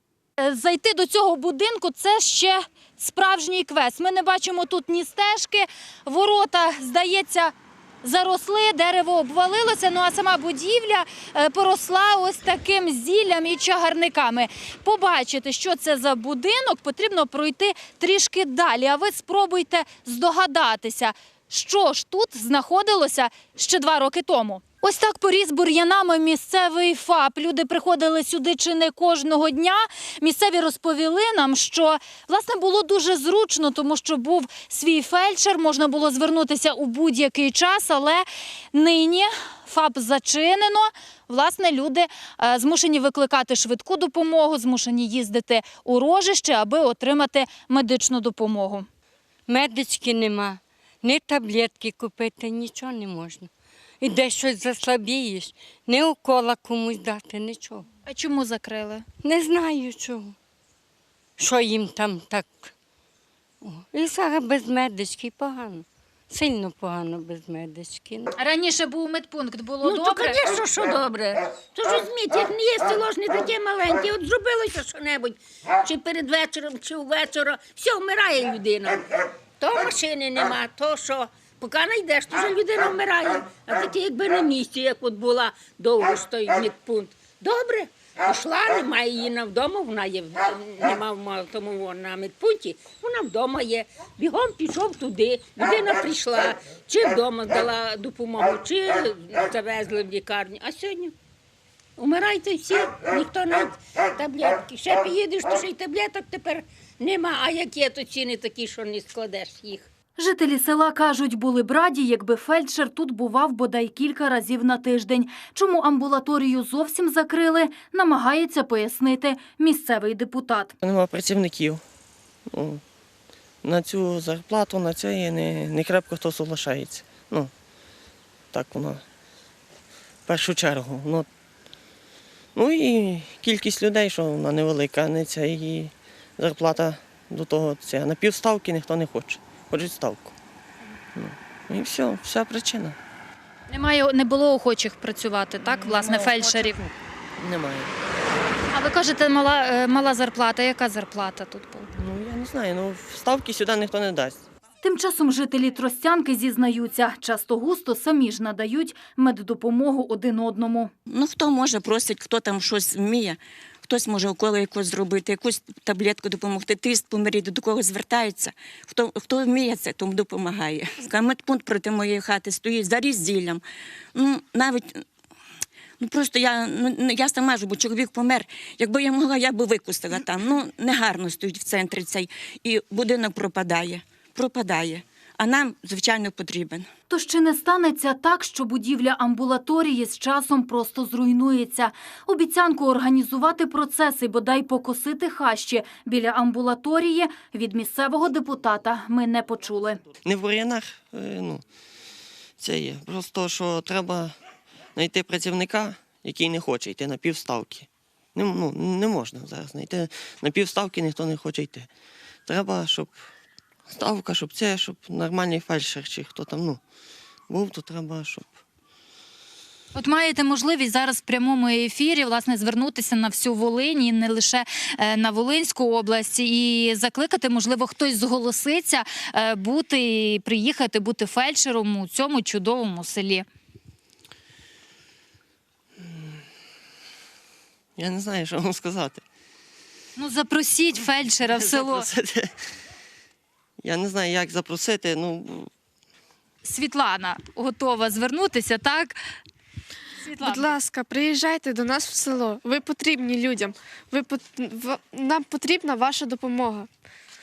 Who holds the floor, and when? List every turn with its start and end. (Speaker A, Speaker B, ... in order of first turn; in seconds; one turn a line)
Speaker A: 0.4-48.9
Speaker B: 49.5-53.5
Speaker B: 54.0-57.9
Speaker A: 58.0-59.0
Speaker B: 59.2-60.3
Speaker B: 61.4-62.7
Speaker B: 63.6-68.3
Speaker A: 68.3-70.4
Speaker C: 69.8-79.1
Speaker C: 79.6-101.1
Speaker C: 102.0-109.9
Speaker A: 110.2-120.7
Speaker D: 120.8-121.8
Speaker D: 122.5-122.8
Speaker D: 123.6-127.5
Speaker D: 128.5-129.0
Speaker D: 130.3-131.3
Speaker D: 132.5-140.3
Speaker D: 141.2-143.0
Speaker A: 143.7-146.8
Speaker D: 145.6-147.9
Speaker A: 148.7-151.9
Speaker D: 151.9-154.4
Speaker A: 154.8-160.9
Speaker E: 161.1-173.6
Speaker E: 174.1-175.0
Speaker E: 176.0-186.9
Speaker A: 187.1-200.0
Speaker D: 200.2-201.6
Speaker D: 202.6-204.3
Speaker D: 204.9-211.9
Speaker D: 212.5-213.2
Speaker D: 213.9-216.8
Speaker D: 217.5-218.5
Speaker A: 219.9-233.5
Speaker D: 238.0-239.2
Speaker A: 240.2-242.1
Speaker D: 241.4-242.5
Speaker D: 243.8-245.7
Speaker A: 246.6-249.2
Speaker A: 250.2-250.8
Speaker F: 250.4-256.9